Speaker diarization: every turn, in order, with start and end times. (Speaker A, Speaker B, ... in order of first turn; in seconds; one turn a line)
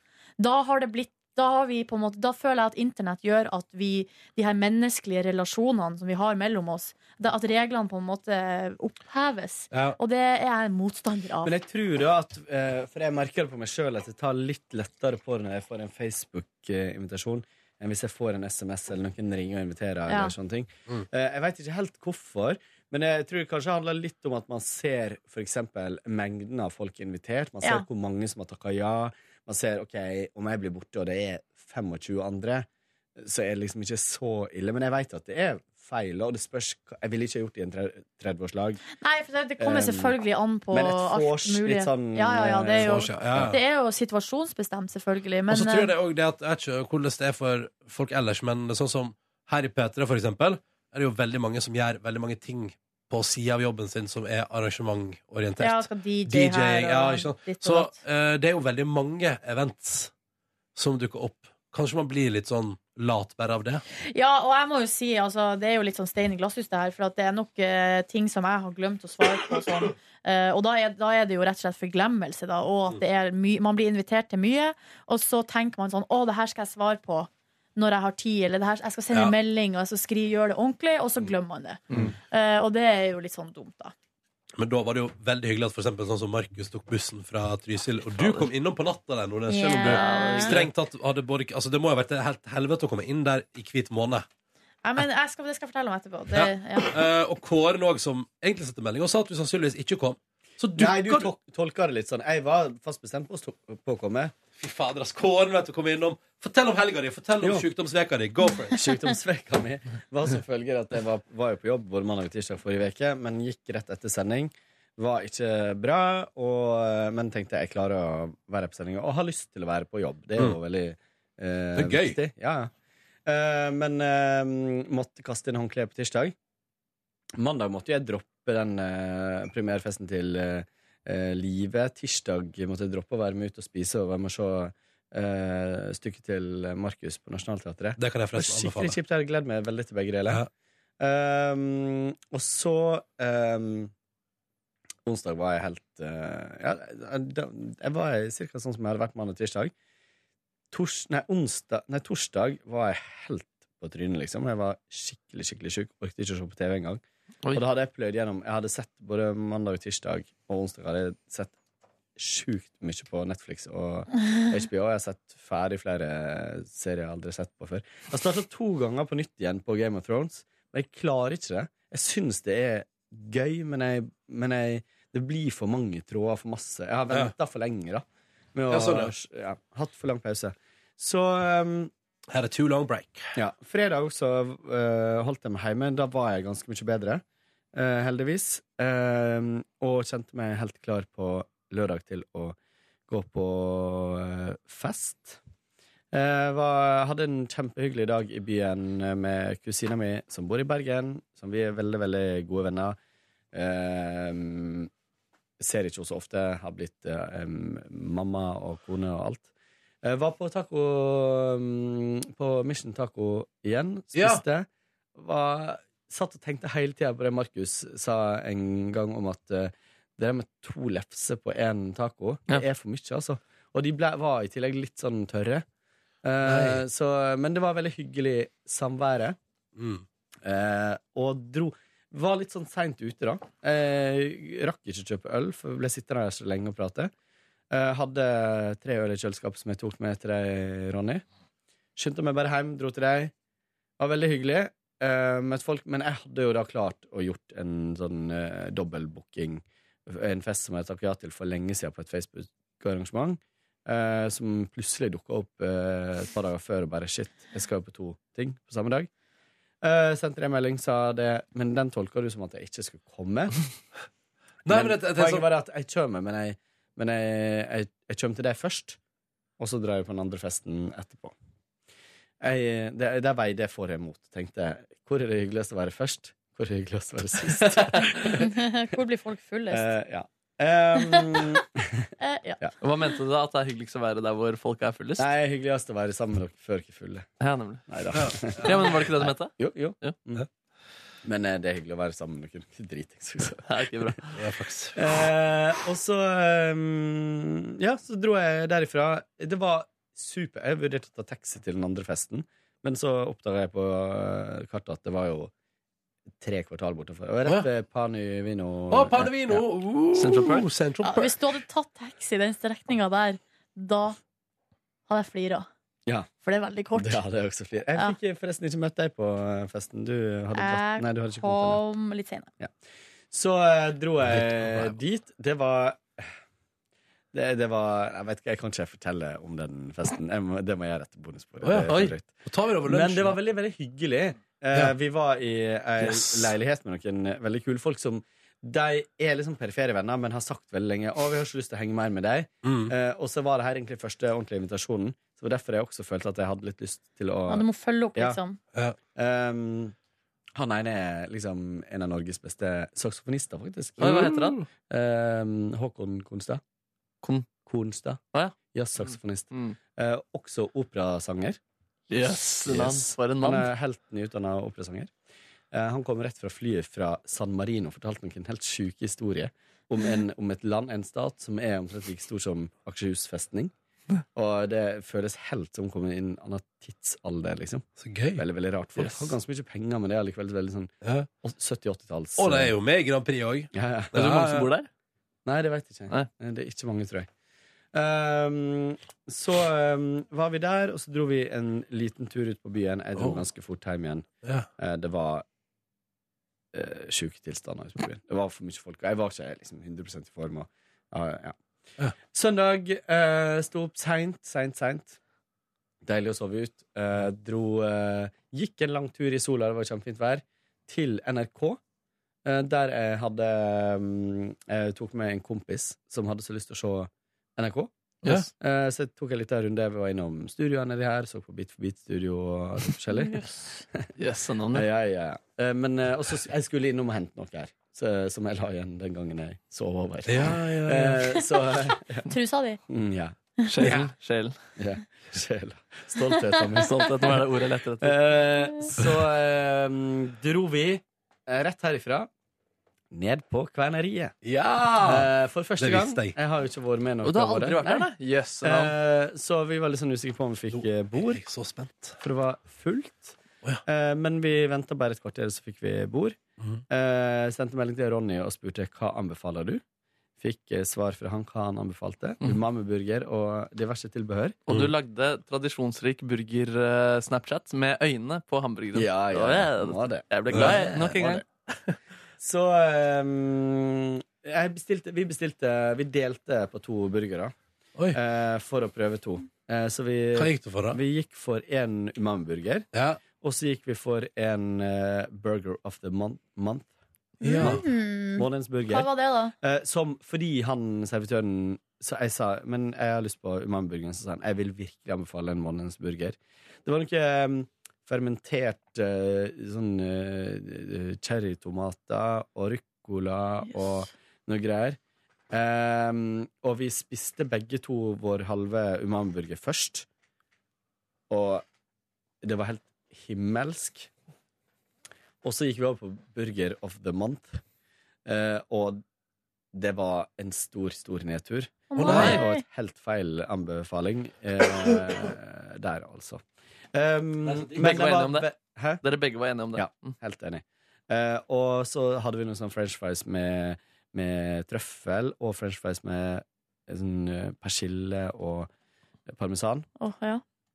Speaker A: 0.4-11.5
Speaker B: 9.7-10.0
Speaker C: 11.4-38.8
Speaker A: 20.1-20.3
Speaker A: 39.0-45.9
Speaker C: 39.6-40.2
Speaker C: 40.7-43.5
Speaker B: 42.8-43.6
Speaker B: 45.5-60.1
Speaker A: 55.6-58.0
Speaker B: 60.8-63.8
Speaker A: 64.0-83.9
Speaker B: 84.6-94.3
Speaker D: 88.2-88.5
Speaker A: 89.5-90.6
Speaker D: 89.8-90.7
Speaker A: 94.8-96.9
Speaker B: 96.3-101.3
Speaker C: 100.8-104.3
Speaker B: 104.6-108.9
Speaker C: 107.4-107.7
Speaker C: 108.7-122.7
Speaker B: 121.8-122.2
Speaker C: 123.3-126.3
Speaker C: 127.4-140.5
Speaker B: 138.0-139.0
Speaker C: 141.0-143.9
Speaker C: 145.1-149.7
Speaker C: 150.7-157.0
Speaker C: 157.5-161.6
Speaker C: 162.2-181.9
Speaker B: 178.7-179.1
Speaker B: 182.3-183.3
Speaker C: 183.3-192.6
Speaker C: 193.1-195.4
Speaker C: 196.1-203.0
Speaker C: 203.5-204.9
Speaker C: 205.6-209.5
Speaker C: 210.0-225.7
Speaker B: 214.1-214.4
Speaker C: 226.2-229.4
Speaker B: 226.4-226.8
Speaker B: 229.8-230.1
Speaker C: 230.4-237.1
Speaker C: 237.7-241.2
Speaker C: 242.0-243.3
Speaker C: 244.0-259.1
Speaker C: 259.8-263.6
Speaker B: 264.6-265.5
Speaker C: 264.7-269.0
Speaker C: 269.6-271.4
Speaker C: 272.4-278.6
Speaker A: 278.3-279.9
Speaker C: 279.7-282.7
Speaker A: 281.0-281.6
Speaker A: 282.2-282.6
Speaker D: 282.8-285.3
Speaker C: 285.2-287.3
Speaker D: 287.4-287.8
Speaker C: 287.9-290.5
Speaker B: 288.1-288.9
Speaker D: 288.6-290.2
Speaker C: 291.2-294.1
Speaker D: 293.7-294.4
Speaker B: 294.4-295.0
Speaker C: 294.9-305.5
Speaker C: 306.4-309.6
Speaker B: 308.9-311.4
Speaker D: 310.1-310.7
Speaker A: 311.0-314.2
Speaker A: 315.1-315.7
Speaker A: 316.4-317.2
Speaker C: 316.9-321.8
Speaker A: 320.5-322.5
Speaker C: 323.3-326.3
Speaker B: 324.2-325.0
Speaker C: 327.3-348.4
Speaker B: 331.6-333.4
Speaker B: 336.0-336.6
Speaker B: 342.6-342.9
Speaker A: 347.5-348.6
Speaker C: 349.1-349.9
Speaker C: 350.6-356.6
Speaker D: 354.0-354.6
Speaker B: 354.1-354.6
Speaker D: 357.2-357.5
Speaker C: 357.6-361.6
Speaker D: 359.5-359.8
Speaker D: 362.1-363.7
Speaker C: 362.6-365.1
Speaker C: 365.7-373.7
Speaker C: 374.4-377.9
Speaker B: 378.0-378.4
Speaker C: 378.4-382.7
Speaker D: 379.0-379.3
Speaker B: 381.0-381.3
Speaker B: 382.4-384.7
Speaker C: 383.7-384.1
Speaker D: 384.1-384.9
Speaker C: 385.5-387.3
Speaker C: 387.9-394.3
Speaker B: 393.2-393.4
Speaker C: 394.8-395.4
Speaker C: 396.7-401.6
Speaker C: 402.3-405.2
Speaker C: 406.0-411.8
Speaker C: 412.4-424.1
Speaker A: 423.1-423.8
Speaker D: 424.2-424.9
Speaker C: 424.7-432.3
Speaker B: 430.3-431.3
Speaker A: 432.3-432.8
Speaker C: 432.9-433.4
Speaker D: 433.7-434.6
Speaker B: 433.8-434.1
Speaker C: 434.8-437.4
Speaker D: 436.8-438.2
Speaker C: 438.0-442.3
Speaker C: 443.1-444.4
Speaker C: 445.0-448.1
Speaker B: 445.0-445.3
Speaker B: 445.8-446.4
Speaker D: 447.2-448.9
Speaker C: 448.6-451.4
Speaker B: 450.7-452.2
Speaker C: 452.2-459.8
Speaker C: 460.4-464.6
Speaker D: 464.7-472.0
Speaker C: 468.9-471.4
Speaker B: 470.5-470.8
Speaker C: 472.4-477.5
Speaker C: 478.1-486.9
Speaker B: 480.4-481.0
Speaker B: 482.9-483.2
Speaker B: 487.4-487.8
Speaker A: 487.5-489.5
Speaker C: 487.6-505.0
Speaker C: 505.5-510.1
Speaker C: 511.3-511.7
Speaker C: 512.4-514.1
Speaker C: 515.4-517.6
Speaker C: 518.3-519.0
Speaker C: 519.7-526.4
Speaker A: 521.9-522.6
Speaker B: 522.0-522.5
Speaker D: 522.1-522.4
Speaker C: 526.9-529.0
Speaker B: 527.4-528.0
Speaker D: 527.8-528.5
Speaker D: 529.0-530.1
Speaker C: 529.8-538.7
Speaker C: 539.3-539.9
Speaker A: 540.0-540.4